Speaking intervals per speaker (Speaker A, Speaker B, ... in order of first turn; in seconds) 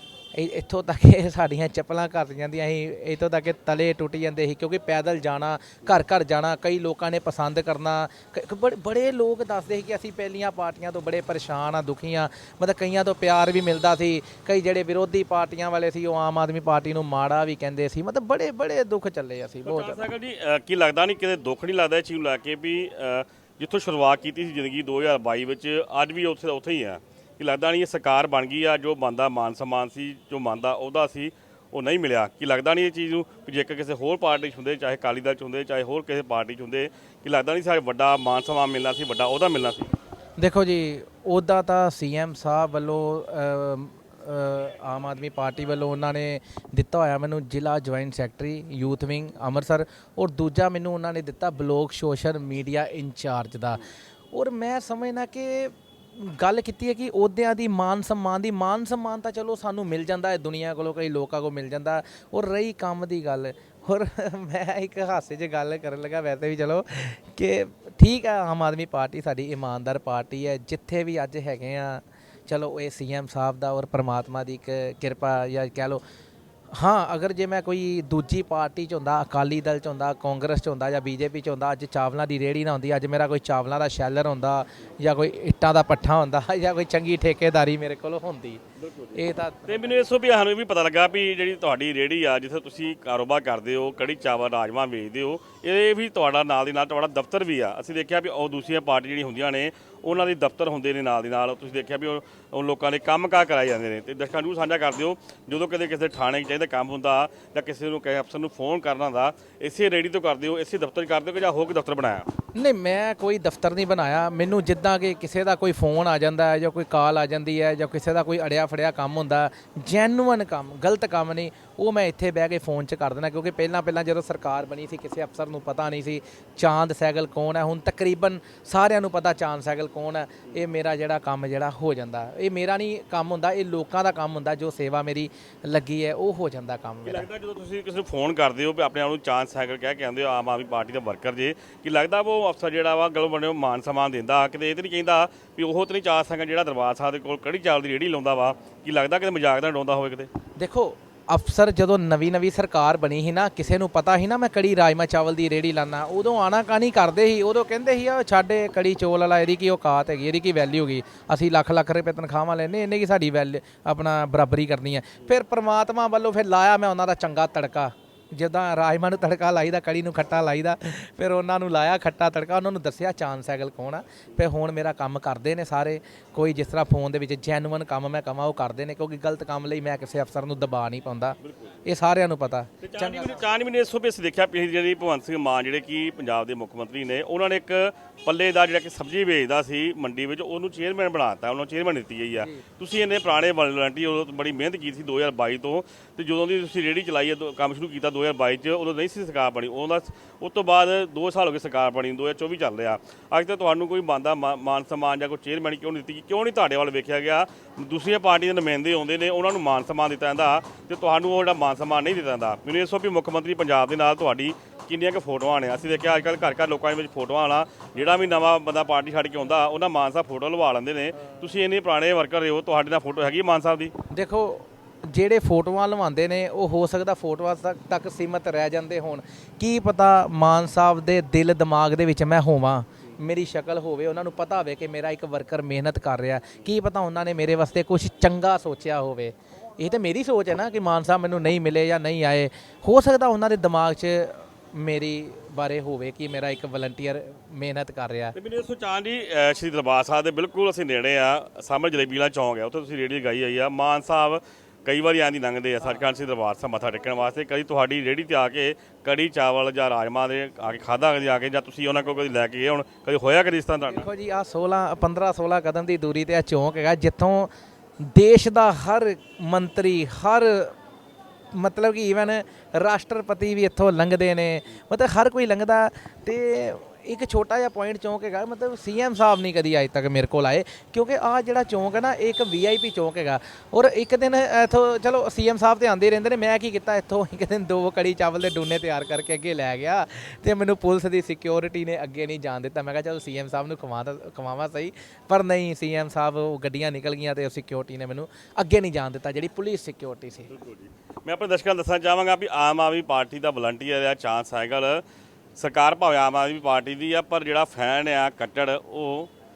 Speaker A: 0.3-20.0, 40.4-76.0, 76.7-88.6, 89.1-90.0, 112.5-137.3, 150.6-183.4, 224.1-248.3, 263.9-270.7, 271.5-300.5
Speaker B: 19.6-39.9, 88.8-112.3, 137.1-150.3, 181.4-181.7, 182.8-223.9, 248.3-264.1, 300.5-305.0, 305.6-309.3